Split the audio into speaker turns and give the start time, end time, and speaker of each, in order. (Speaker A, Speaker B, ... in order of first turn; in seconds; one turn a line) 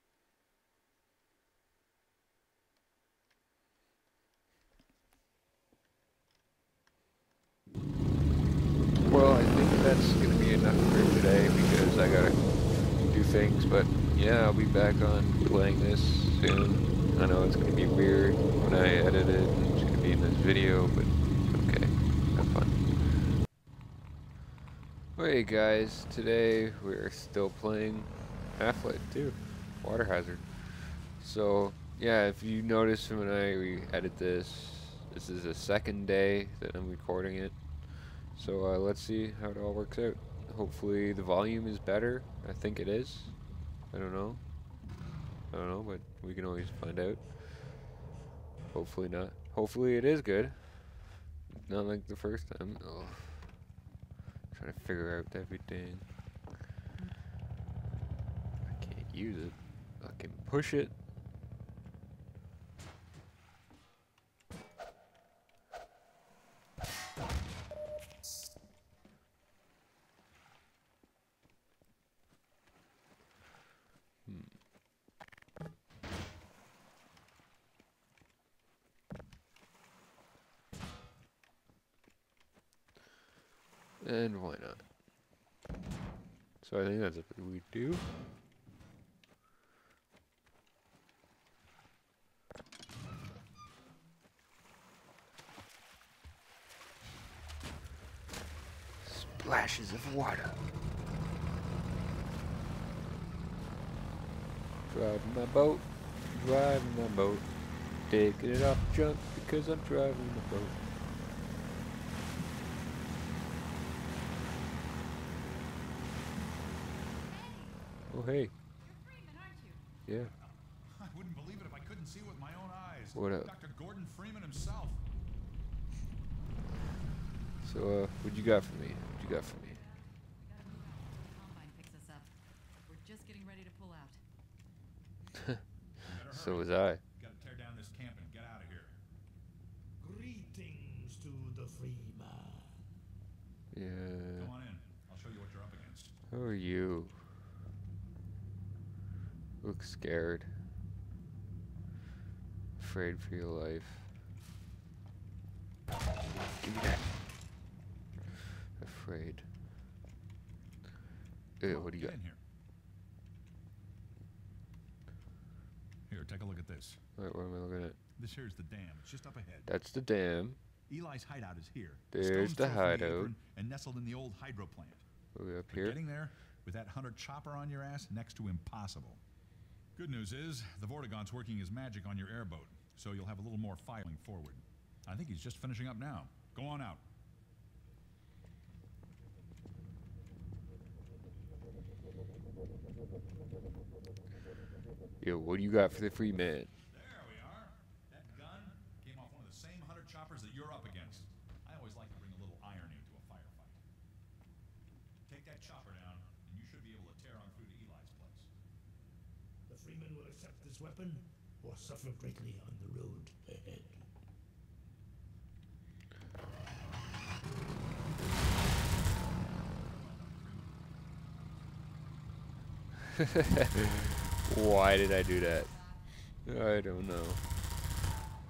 Speaker A: 9.0-23.2
Speaker A: 25.1-43.3
Speaker A: 43.9-44.4
Speaker A: 45.5-47.5
Speaker A: 48.7-53.4
Speaker A: 54.5-56.1
Speaker A: 58.6-60.9
Speaker A: 74.2-74.5
Speaker A: 84.0-84.8
Speaker A: 86.6-88.0
Speaker A: 99.0-100.6
Speaker A: 104.9-107.5
Speaker A: 108.0-110.8
Speaker B: 117.3-117.8
Speaker A: 118.1-118.5
Speaker B: 118.8-119.8
Speaker A: 120.0-120.3
Speaker C: 120.3-125.0
Speaker A: 123.1-123.5
Speaker A: 127.6-129.8
Speaker B: 129.6-132.3
Speaker B: 132.8-134.2
Speaker C: 136.1-139.0
Speaker A: 136.1-137.0
Speaker D: 140.0-142.9
Speaker A: 143.7-144.5
Speaker C: 144.3-146.1
Speaker A: 146.3-147.2
Speaker A: 149.6-150.5
Speaker A: 152.8-154.1
Speaker A: 156.4-157.0
Speaker A: 158.8-159.5
Speaker A: 161.6-162.1
Speaker C: 161.7-162.4
Speaker C: 166.1-167.0
Speaker A: 167.2-168.0
Speaker C: 168.2-169.7
Speaker A: 169.7-170.6
Speaker C: 170.9-175.0
Speaker A: 172.1-173.3
Speaker A: 175.3-176.0
Speaker C: 175.7-179.2
Speaker C: 179.9-187.0
Speaker A: 195.2-196.7
Speaker C: 196.9-203.8
Speaker C: 205.2-208.5
Speaker D: 209.7-214.1
Speaker C: 219.9-220.6
Speaker A: 223.1-225.7
Speaker B: 225.6-226.1
Speaker A: 226.4-227.4